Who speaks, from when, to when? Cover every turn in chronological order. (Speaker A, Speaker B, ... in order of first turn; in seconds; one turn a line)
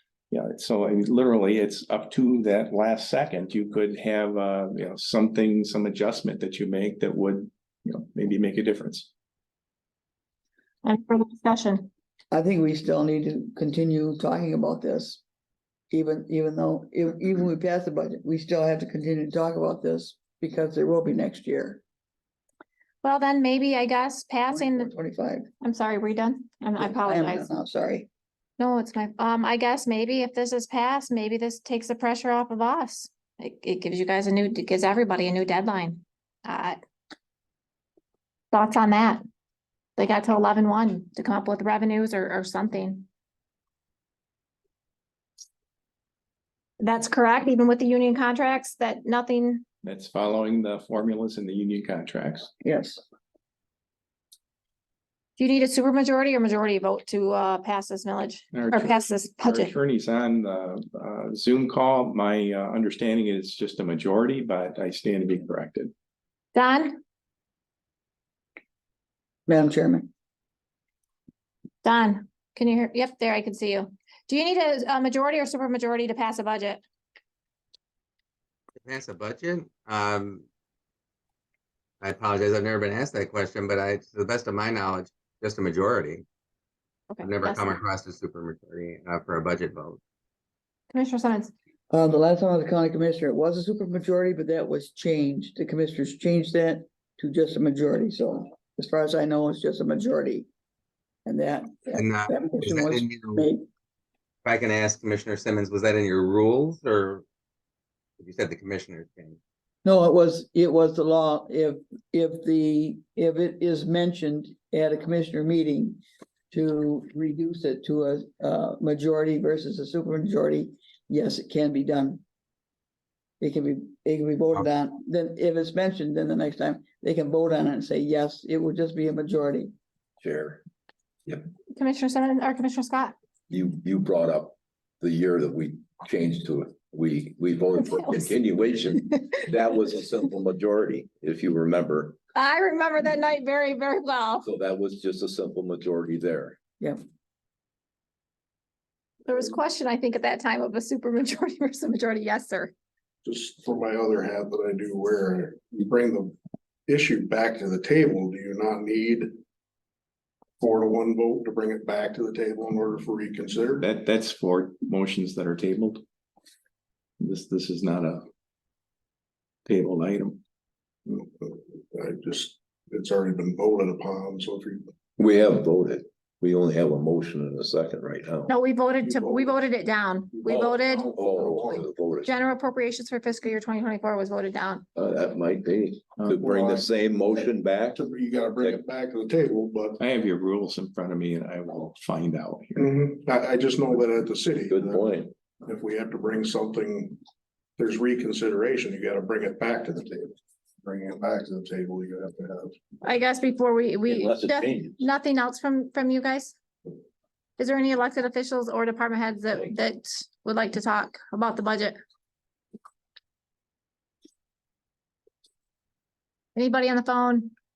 Speaker A: 0.3-9.1
Speaker B: 10.8-11.9
Speaker C: 12.3-15.2
Speaker C: 15.9-21.8
Speaker B: 23.0-24.9
Speaker C: 24.5-25.5
Speaker B: 25.6-27.5
Speaker C: 26.8-28.1
Speaker B: 28.6-36.8
Speaker B: 38.5-39.2
Speaker B: 40.0-43.1
Speaker B: 46.8-49.6
Speaker A: 49.8-52.5
Speaker C: 52.6-53.0
Speaker B: 55.4-59.7
Speaker A: 58.5-65.9
Speaker B: 66.5-67.0
Speaker C: 69.5-70.1
Speaker B: 71.8-76.8
Speaker D: 78.8-80.5
Speaker D: 82.0-86.2
Speaker B: 87.1-87.8
Speaker D: 87.2-90.0
Speaker B: 90.9-91.5
Speaker C: 91.9-100.5
Speaker C: 101.2-103.6
Speaker D: 102.0-103.5
Speaker D: 104.5-107.2
Speaker D: 108.2-109.4
Speaker C: 109.8-122.2
Speaker C: 123.4-129.7
Speaker E: 130.2-130.6
Speaker B: 131.7-133.2
Speaker E: 133.5-142.2
Speaker B: 137.8-138.3
Speaker B: 142.3-144.5
Speaker E: 144.4-146.6
Speaker B: 149.3-152.7
Speaker F: 153.2-156.3
Speaker F: 156.9-159.3
Speaker F: 160.6-163.8
Speaker A: 163.8-166.0
Speaker A: 167.2-168.3
Speaker A: 169.7-170.4
Speaker F: 171.1-174.9
Speaker E: 175.2-178.5
Speaker B: 178.5-181.1
Speaker F: 179.0-179.6
Speaker F: 180.4-181.9
Speaker E: 180.5-182.3
Speaker B: 182.2-184.8
Speaker E: 184.9-188.1
Speaker F: 186.3-190.0
Speaker A: 190.0-192.9
Speaker F: 192.8-197.2
Speaker E: 194.7-195.3
Speaker F: 197.8-202.8
Speaker B: 203.0-206.6
Speaker E: 204.1-205.0
Speaker B: 207.6-212.0
Speaker B: 216.6-217.5